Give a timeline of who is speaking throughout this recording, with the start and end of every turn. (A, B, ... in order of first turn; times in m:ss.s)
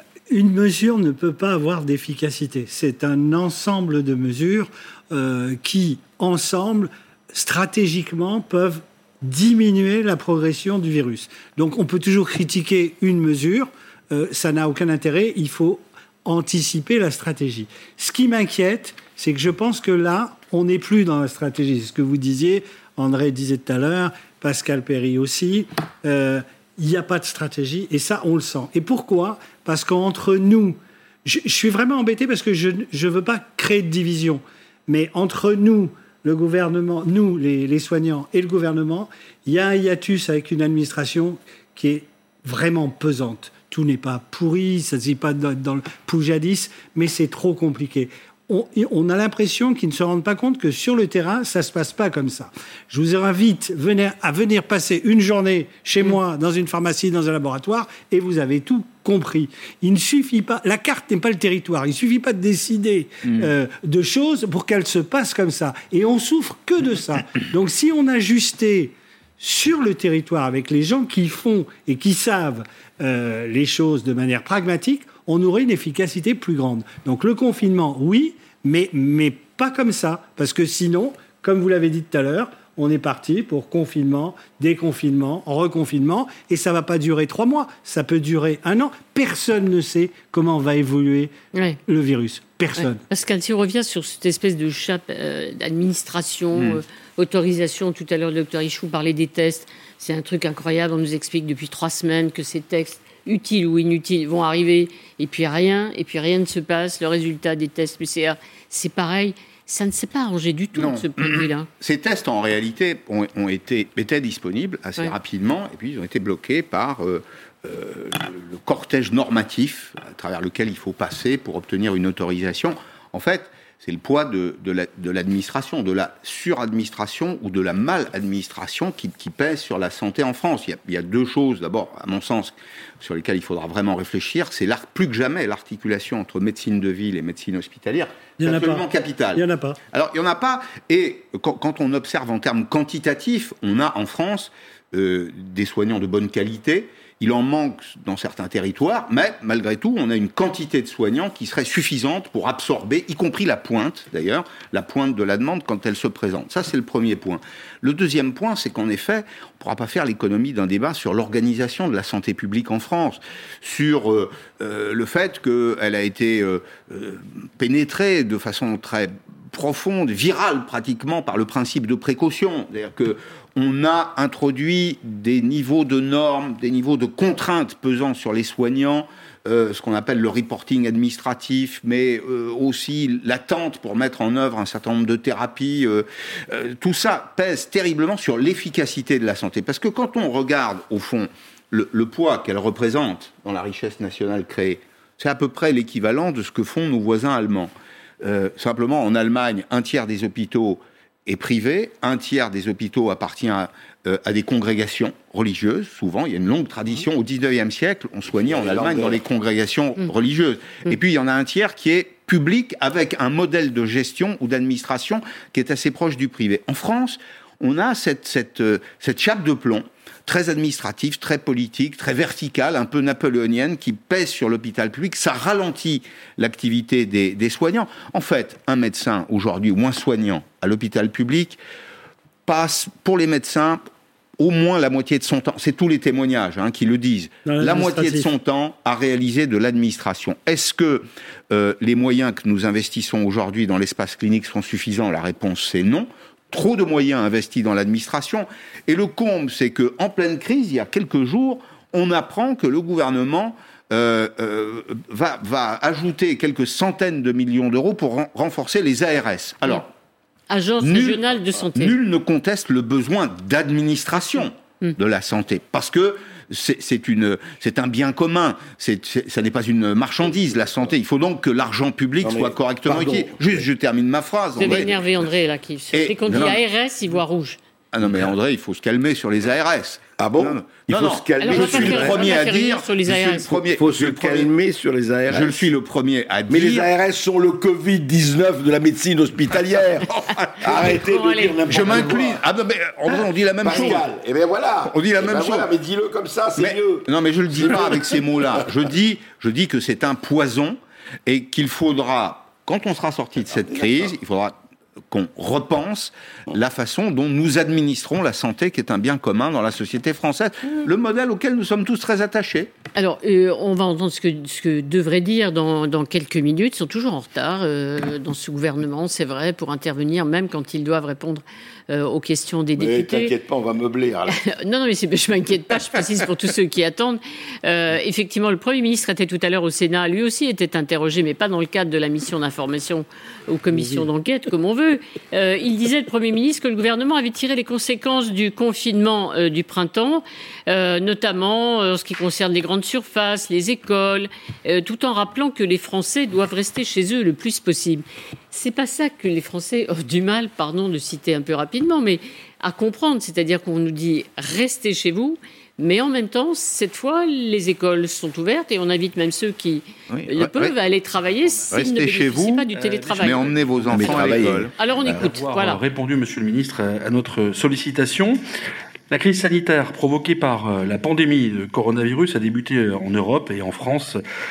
0:00.3-1:31.3 A
1:31.5-1:31.8 B
1:31.9-1:33.0 A
1:32.8-1:51.7 B
1:50.8-3:51.6 C
2:18.4-2:19.8 A
3:28.4-3:29.2 D
3:52.5-3:53.8 C
3:54.4-4:19.9 C
3:57.5-3:58.3 A
4:20.5-4:22.0 B
4:20.8-4:34.9 C
4:32.2-4:33.7 D
4:34.6-4:37.6 B
4:34.6-4:34.9 D
4:35.9-4:36.6 C
4:37.9-4:44.5 C
4:40.2-4:42.5 D
4:41.4-4:43.6 B
4:43.7-4:45.7 D
4:45.3-4:46.9 C
4:46.5-4:52.4 D
4:50.6-4:51.0 C
4:50.7-4:51.8 B
4:51.7-4:54.1 C
4:53.6-4:57.1 D
4:54.8-4:55.8 C
4:56.6-5:04.6 C
4:57.6-4:58.0 D
5:03.7-5:04.0 D
5:05.1-5:12.7 C
5:13.0-5:23.3 B
5:22.8-5:24.4 D
5:24.3-6:05.8 B
6:00.1-6:00.7 C
6:01.7-6:04.7 C
6:03.9-6:05.2 D
6:05.0-6:08.4 E
6:09.1-6:14.2 E